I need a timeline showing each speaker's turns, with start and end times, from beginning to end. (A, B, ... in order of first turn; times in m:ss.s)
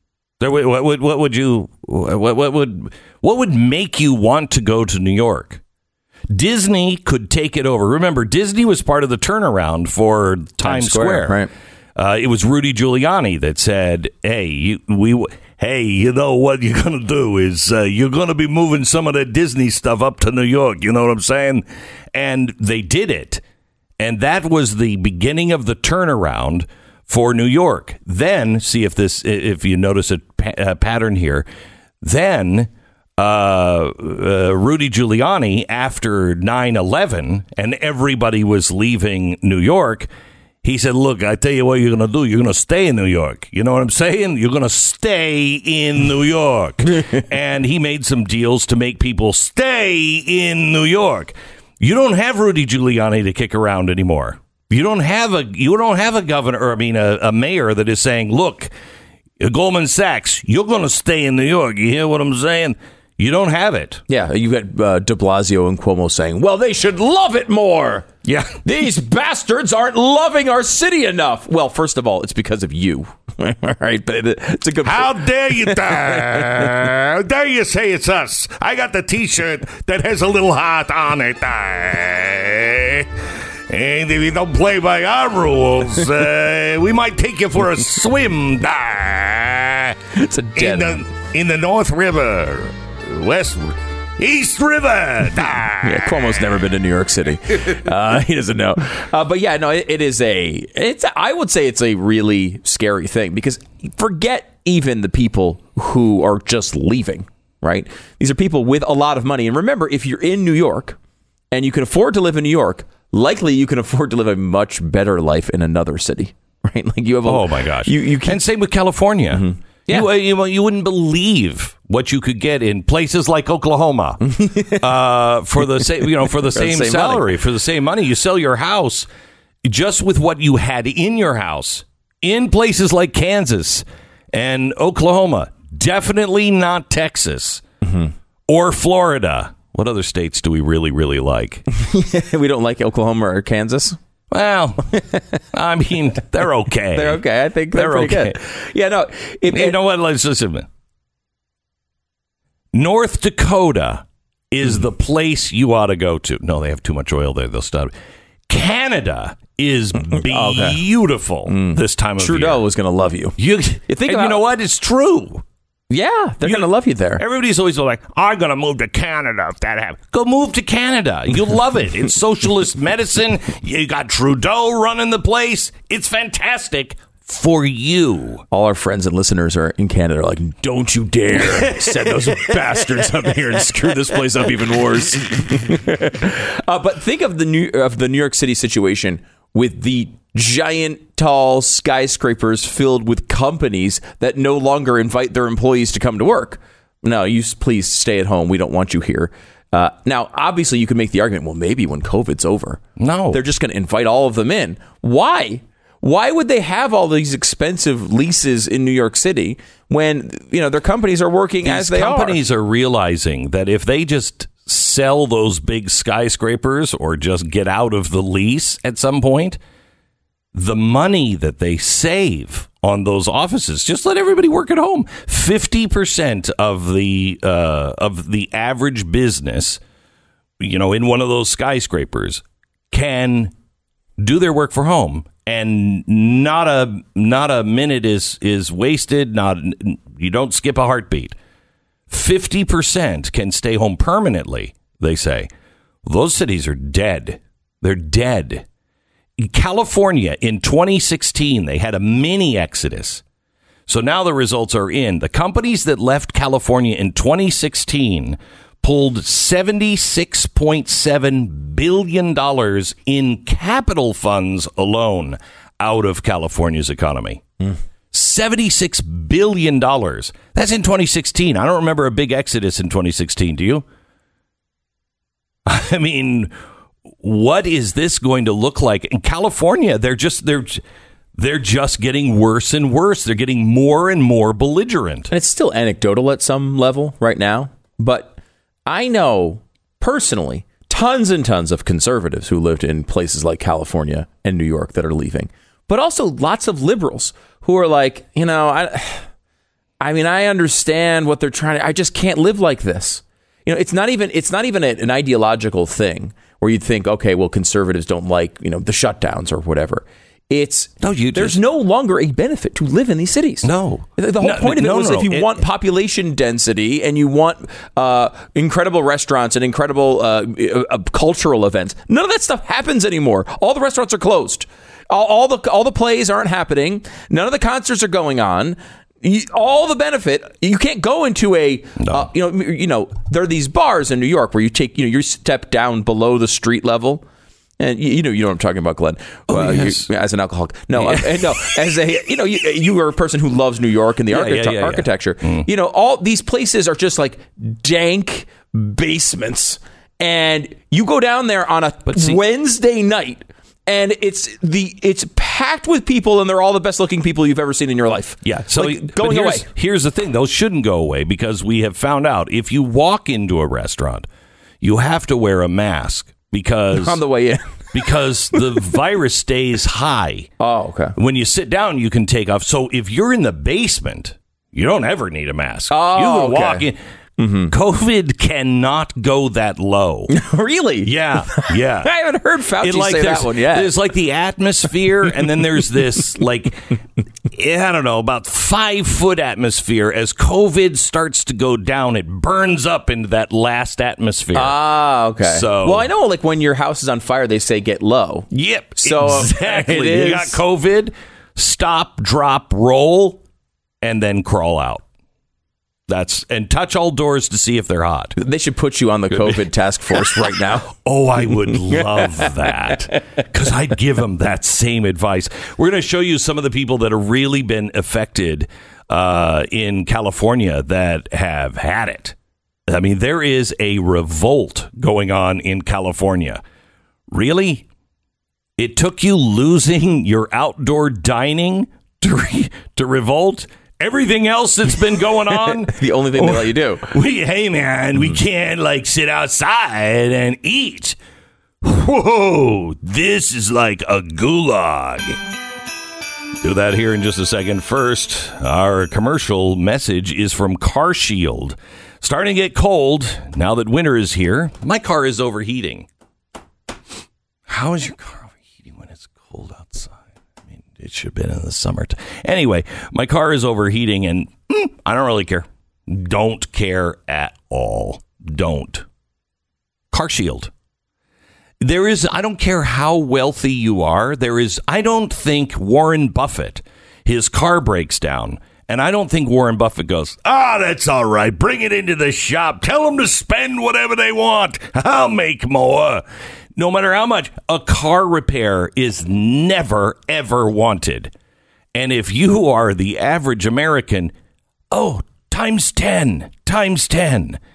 0:00.4-0:05.6 A
0:06.3-0:11.4 A
0:10.6-0:11.5 B
0:12.0-0:23.4 A
0:24.0-0:31.4 A
0:32.0-0:40.1 A
0:40.6-0:58.7 A
0:59.4-1:04.0 A
1:04.1-1:08.1 B
1:08.2-1:08.6 A
1:08.6-1:16.7 B
1:14.8-1:23.1 A
1:23.7-1:30.0 A
1:30.1-1:31.1 B
1:30.6-1:36.4 A
1:35.8-1:51.0 B
1:51.5-1:58.4 B
1:57.2-2:09.1 A
1:59.3-2:00.1 B
2:04.2-2:04.9 B
2:05.8-2:07.4 B
2:09.6-2:17.6 A
2:17.8-2:18.1 B
2:18.5-2:21.7 A
2:21.7-2:24.0 B
2:24.3-2:25.0 A
2:24.9-2:25.2 B
2:25.5-2:27.2 A
2:26.9-2:29.8 B
2:27.7-2:28.4 A
2:29.5-2:30.7 A
2:32.7-2:37.9 A
2:38.5-2:42.6 A
2:40.1-2:40.8 B
2:41.5-2:43.4 B
2:43.4-2:45.4 A
2:43.9-2:44.5 B
2:45.9-2:47.2 B
2:46.4-2:58.4 A
2:58.5-3:32.4 B
3:01.4-3:04.3 A
3:23.0-3:23.4 A
3:31.6-3:39.6 A
3:40.5-3:49.8 A
3:50.6-3:53.5 A
3:54.2-4:01.4 A
4:02.1-4:05.5 A
4:06.0-4:08.6 A
4:09.4-4:13.2 A
4:13.9-4:27.5 A
4:28.1-4:33.8 A
4:35.7-4:36.5 A
4:37.2-4:40.8 A
4:41.4-4:45.3 A
4:45.3-4:59.3 B
5:00.0-5:37.2 B
5:11.0-5:11.6 A
5:13.6-5:15.6 A
5:32.0-5:32.3 A
5:37.8-5:59.7 B
5:39.5-5:40.1 A
5:41.0-5:41.5 A
5:44.3-5:45.7 A
5:52.1-5:52.4 A
5:58.4-6:04.3 A
6:04.8-6:07.2 A
6:06.9-6:08.0 B
6:07.9-6:10.5 A
6:10.6-6:11.2 B
6:11.2-6:17.0 A
6:15.9-6:17.7 B
6:17.7-6:20.3 A
6:20.3-6:23.9 B
6:21.0-6:22.1 A
6:22.8-6:34.8 A
6:34.5-6:40.6 B
6:35.4-6:36.1 A
6:38.5-6:43.4 A
6:44.0-6:45.0 A
6:46.1-6:48.4 A
6:48.4-6:50.9 B
6:49.3-6:49.6 A
6:50.9-7:02.4 A
7:02.9-7:06.6 A
7:07.3-7:07.8 A
7:08.8-7:21.2 A
7:15.6-7:17.1 B
7:21.8-7:25.4 A
7:26.6-7:36.1 A
7:37.7-7:40.2 A
7:40.8-7:49.1 A
7:50.1-7:50.7 A
7:51.8-8:06.2 A
8:06.8-8:11.3 A
8:12.0-8:14.3 A
8:14.9-8:17.6 A